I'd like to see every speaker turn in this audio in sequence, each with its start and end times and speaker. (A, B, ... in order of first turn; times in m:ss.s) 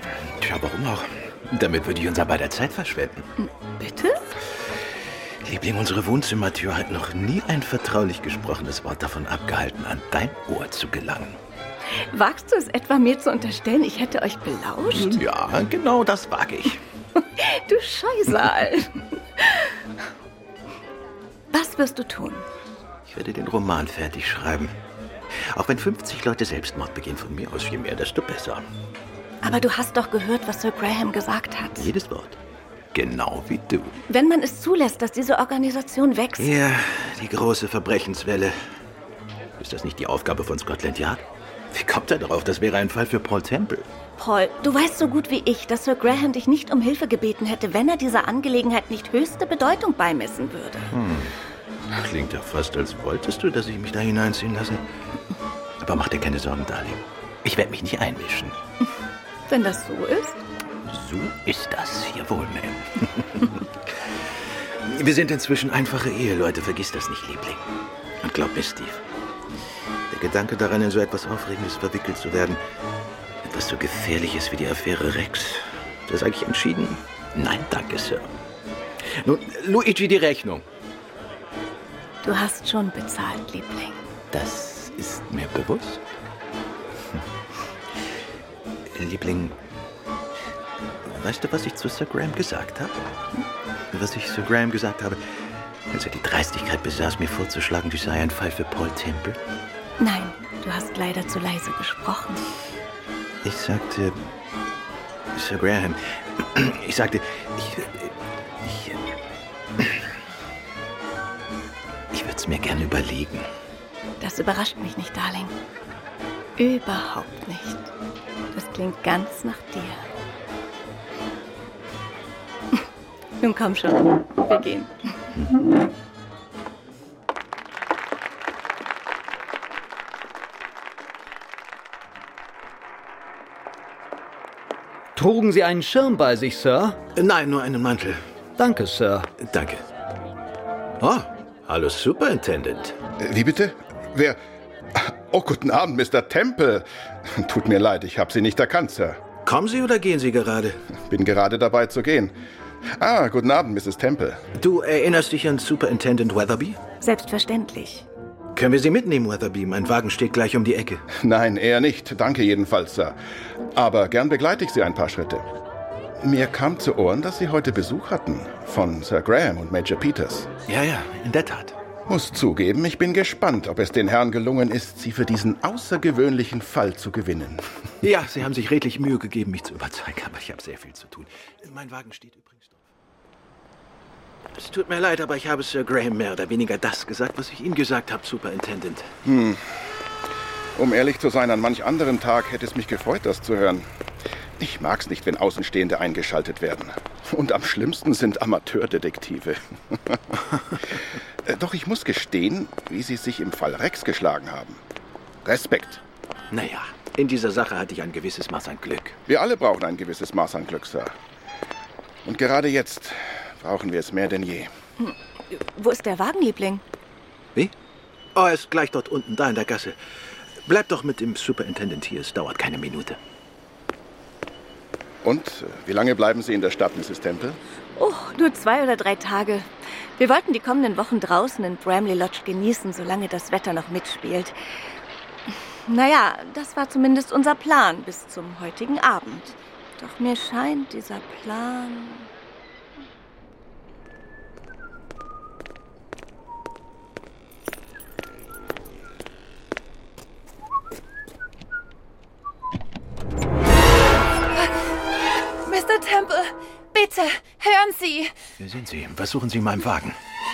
0:00.2-0:03.3 A
0:03.4-0:04.3 B
0:05.4-0:11.4 A
0:12.0-0:15.2 B
0:14.9-0:16.8 A
0:17.3-0:19.7 B
0:21.5-0:22.4 B
0:23.1-0:24.7 A
0:25.4-0:28.6 A
0:29.4-0:31.9 B
0:31.8-0:32.4 A
0:32.9-0:34.0 A
0:34.1-0:36.5 B
0:36.4-0:38.6 A
0:39.6-0:43.9 A
0:44.2-0:50.9 B
0:50.9-0:51.3 A
0:51.9-0:54.8 A
0:55.8-0:58.6 A
0:59.5-1:00.4 B
1:00.9-1:03.6 A
1:04.8-1:07.6 A
1:08.2-1:09.0 A
1:10.1-1:12.6 A
1:13.4-1:18.3 A
1:19.0-1:20.6 A
1:22.2-1:24.0 B
1:24.3-1:26.0 A
1:28.9-1:29.6 A
1:31.0-1:33.0 A
1:33.9-1:35.2 A
1:35.9-1:39.4 A
1:40.0-1:42.4 B
1:43.4-1:44.2 A
1:45.3-1:49.0 A
1:52.1-1:53.5 A
1:54.2-1:55.5 B
1:56.6-1:57.9 B
1:58.5-2:00.0 B
2:03.4-2:04.9 B
2:15.2-2:17.0 C
2:17.2-2:18.2 A
2:18.6-2:19.3 C
2:19.4-2:19.8 A
2:21.0-2:23.0 A
2:23.2-2:24.4 D
2:24.9-2:29.2 D
2:29.4-2:30.8 A
2:31.1-2:32.4 D
2:33.0-2:34.4 D
2:34.6-2:36.8 A
2:37.0-2:38.0 B
2:38.5-2:41.0 A
2:41.2-2:43.2 D
2:43.7-2:45.4 D
2:46.2-2:50.5 D
2:50.7-2:51.8 A
2:52.1-2:57.6 D
2:58.0-3:02.8 A
3:04.5-3:09.1 A
3:09.2-3:09.6 D
3:10.8-3:13.9 D
3:14.6-3:24.8 D
3:25.4-3:26.0 D
3:26.5-3:29.2 A
3:29.3-3:31.1 D
3:32.2-3:34.7 D
3:35.0-3:36.8 B
3:38.3-3:40.0 A
3:40.6-3:43.2 A
3:45.2-3:47.6 D
3:48.0-3:54.5 B
3:55.8-4:02.3 B
4:15.6-4:18.3 E
4:18.6-4:20.2 A